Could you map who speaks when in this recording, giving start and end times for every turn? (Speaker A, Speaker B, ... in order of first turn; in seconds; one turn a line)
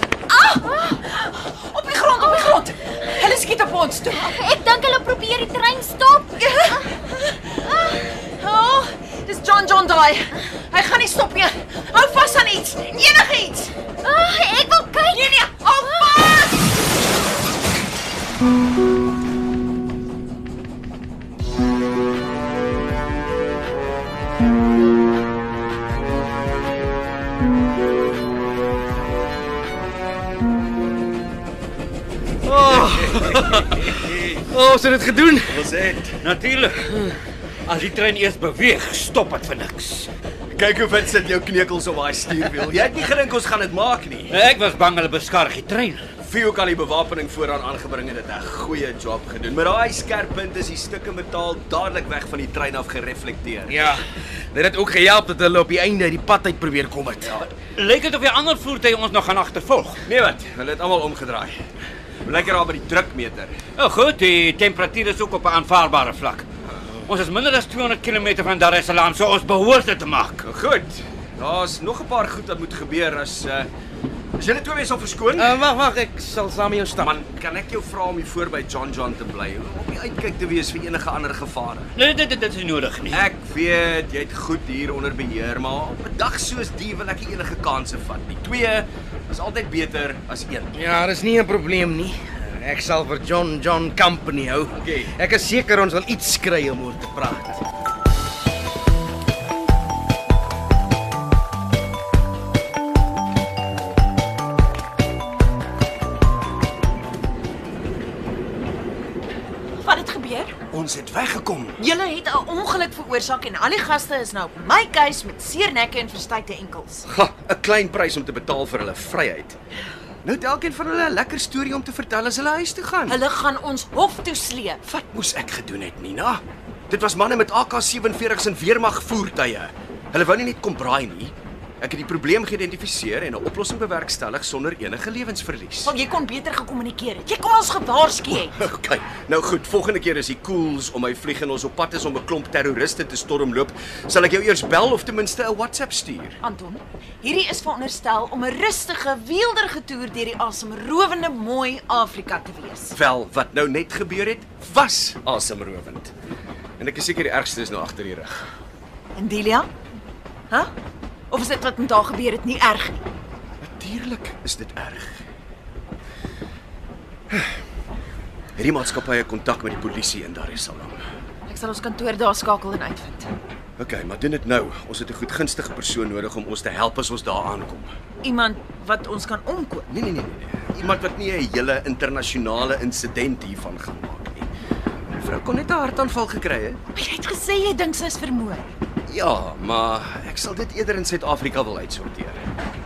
Speaker A: 0.3-4.4
Speaker B: 4.2-6.8
Speaker A: 6.4-13.7
Speaker B: 14.0-15.3
Speaker A: 15.1-16.6
Speaker B: 15.8-16.2
Speaker C: 32.5-35.6
Speaker D: 32.8-33.4
Speaker D: 35.5-36.2
Speaker E: 36.2-37.1
Speaker E: 37.7-40.1
Speaker D: 40.5-44.4
Speaker E: 44.3-46.1
Speaker D: 46.2-53.8
Speaker C: 53.7-57.5
Speaker E: 57.6-60.0
Speaker D: 60.0-61.6
Speaker D: 62.2-63.6
Speaker E: 63.8-66.5
Speaker E: 67.1-70.4
Speaker D: 70.4-73.7
Speaker D: 74.4-75.5
Speaker C: 75.4-77.1
Speaker D: 77.0-81.9
Speaker E: 82.0-83.2
Speaker D: 83.1-90.7
Speaker C: 90.8-97.6
Speaker D: 94.7-95.1
Speaker A: 109.8-110.5
Speaker D: 110.7-111.8
Speaker A: 111.8-117.1
Speaker D: 117.1-119.6
Speaker D: 120.2-123.2
Speaker A: 123.1-124.8
Speaker D: 124.9-135.9
Speaker A: 135.8-138.6
Speaker D: 138.5-146.4
Speaker A: 146.4-152.9
Speaker D: 152.9-156.1
Speaker D: 156.8-158.5
Speaker A: 159.2-159.7
Speaker A: 161.3-163.0
Speaker D: 163.6-165.2
Speaker D: 167.3-167.6
Speaker D: 168.6-171.0
Speaker A: 171.5-173.3
Speaker D: 173.8-177.9
Speaker A: 178.2-179.9
Speaker D: 179.9-184.5
Speaker D: 185.2-186.8
Speaker A: 186.9-188.7
Speaker D: 189.1-192.4